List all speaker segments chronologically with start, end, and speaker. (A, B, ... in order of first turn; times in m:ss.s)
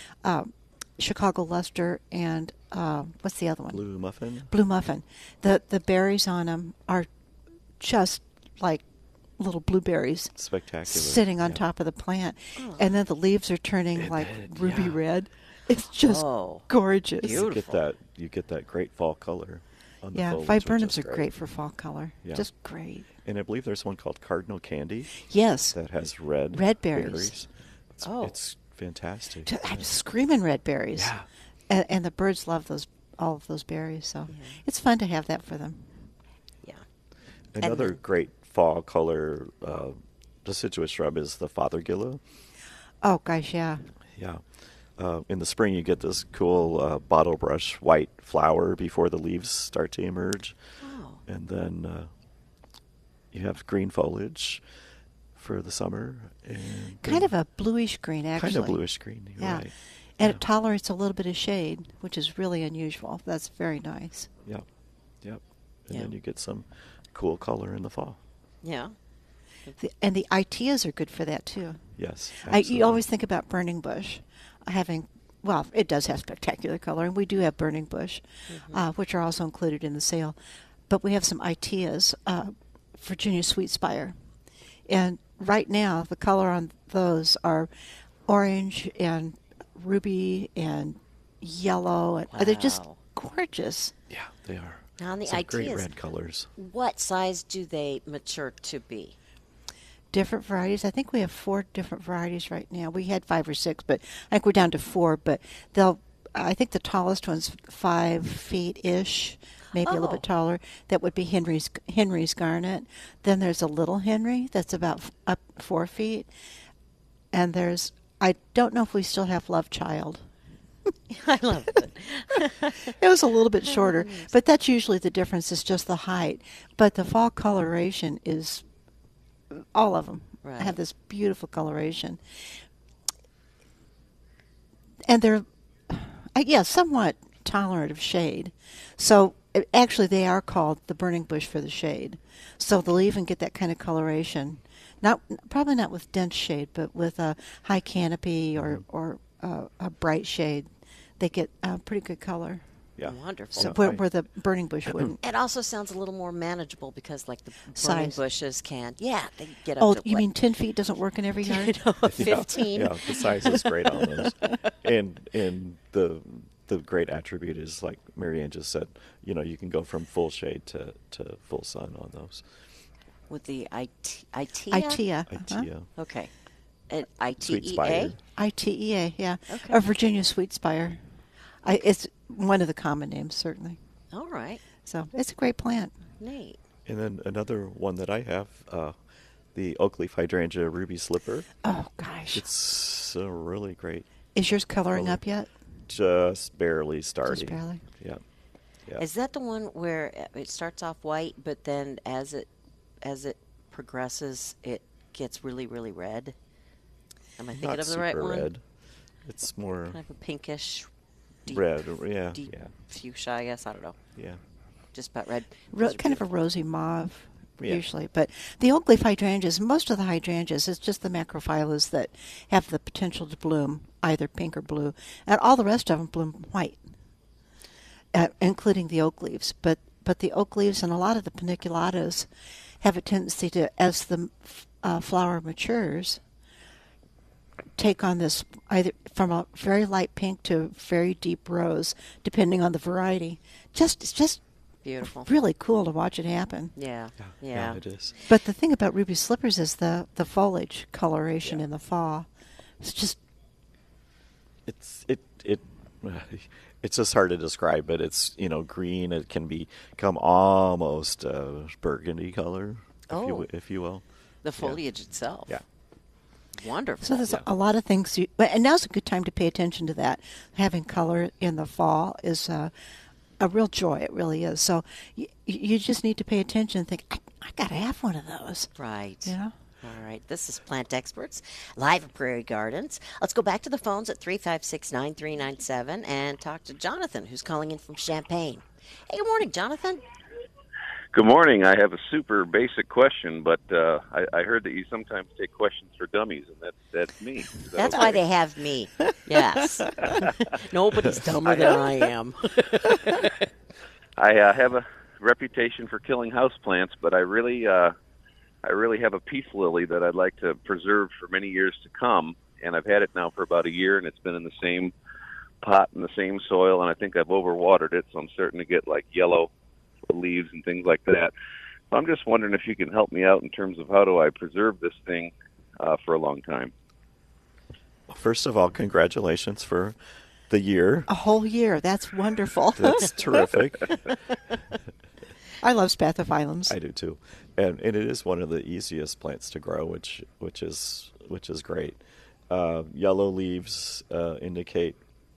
0:00.2-0:03.8 A
0:03.7-0:04.5 B
0:04.5-0:07.1 A
0:07.8-0:08.8 A
0:09.4-0:10.3 A
0:10.4-0:11.6 B
0:10.9-0:17.4 A
0:12.6-0:12.9 C
0:14.0-0:15.0 B
0:16.0-0:16.6 C
0:17.2-0:17.8 C
0:17.2-0:21.3 B
0:20.1-0:23.1 A
0:23.2-0:25.2 B
0:25.2-0:25.8 A
0:25.7-0:27.5 B
0:26.5-0:27.4 A
0:28.0-0:28.4 C
0:28.0-0:29.9 B
0:29.5-0:31.1 A
0:31.0-0:31.2 B
0:31.7-0:35.9 A
0:34.3-0:34.6 C
0:37.6-0:42.2 B
0:37.6-0:38.0 C
0:43.0-0:43.9 A
0:44.1-0:44.4 B
0:45.0-0:50.6 B
0:50.8-0:51.2 C
0:51.3-0:52.1 B
0:53.3-0:54.6 B
0:55.4-0:57.3 B
0:57.0-0:58.8 A
0:58.4-1:00.4 B
0:59.4-0:59.6 A
1:00.2-1:04.3 A
1:05.2-1:08.2 B
1:08.6-1:09.0 C
1:09.8-1:11.8 A
1:12.0-1:13.0 B
1:12.4-1:20.4 A
1:18.5-1:18.8 C
1:20.9-1:24.2 A
1:24.9-1:27.7 A
1:28.3-1:33.9 A
1:32.3-1:33.0 C
1:34.1-1:36.5 B
1:35.0-1:35.9 C
1:36.6-1:39.2 C
1:40.1-1:56.3 A
1:49.8-1:50.2 C
1:57.3-2:00.2 A
2:01.1-2:02.9 C
2:02.9-2:08.6 A
2:03.7-2:04.3 C
2:09.5-2:12.2 A
2:10.4-2:10.8 C
2:15.1-2:30.7 A
2:28.6-2:28.8 B
2:31.2-2:32.6 A
2:33.0-2:34.0 B
2:33.1-2:33.8 C
2:33.6-2:35.2 A
2:35.2-2:40.3 C
2:37.8-2:38.2 A
2:39.8-2:41.8 A
2:41.4-2:44.1 C
2:42.1-2:52.4 B
2:53.3-2:55.0 C
2:54.7-2:55.7 A
2:55.3-2:55.9 B
2:56.0-2:56.3 C
2:56.9-2:58.1 C
2:57.4-2:58.2 B
2:58.4-3:01.0 A
2:59.5-2:59.8 C
3:01.6-3:03.8 A
3:04.1-3:04.6 C
3:04.8-3:05.9 A
3:06.2-3:06.6 C
3:06.9-3:09.0 B
3:09.5-3:11.5 B
3:11.6-3:12.4 A
3:12.3-3:14.1 B
3:14.4-3:15.5 A
3:14.9-3:15.2 B
3:15.9-3:18.2 B
3:17.3-3:17.8 A
3:19.0-3:22.5 C
3:23.0-3:26.4 C
3:27.4-3:28.5 C
3:27.5-3:28.6 B
3:29.2-3:30.0 B
3:29.9-3:30.9 C
3:31.5-3:34.0 C
3:31.5-3:32.7 B
3:34.9-3:36.2 C
3:35.7-3:46.8 A
3:37.6-3:37.8 B
3:48.1-3:52.3 A
3:52.8-3:56.2 A
3:57.8-4:04.4 A
4:04.8-4:05.3 C
4:05.1-4:06.7 A
4:06.8-4:07.8 C
4:07.2-4:08.2 B
4:08.3-4:12.3 A
4:12.8-4:13.2 A
4:14.7-4:24.0 B
4:23.1-4:23.5 C
4:24.4-4:25.6 C
4:26.6-4:27.4 C
4:27.0-4:32.7 A
4:33.4-4:38.7 A
4:38.8-4:50.0 C
4:39.3-4:39.5 A
4:51.1-4:58.2 D
4:57.7-5:03.3 C
5:01.4-5:01.8 D
5:04.2-5:08.0 D
5:08.6-5:14.9 D
5:15.6-5:19.5 D
5:20.1-5:21.3 D
5:21.9-5:26.7 D
5:28.1-5:30.0 B
5:30.5-5:31.1 B
5:31.1-5:33.1 A
5:32.8-5:33.9 B
5:35.6-5:36.8 A
5:36.7-5:45.0 B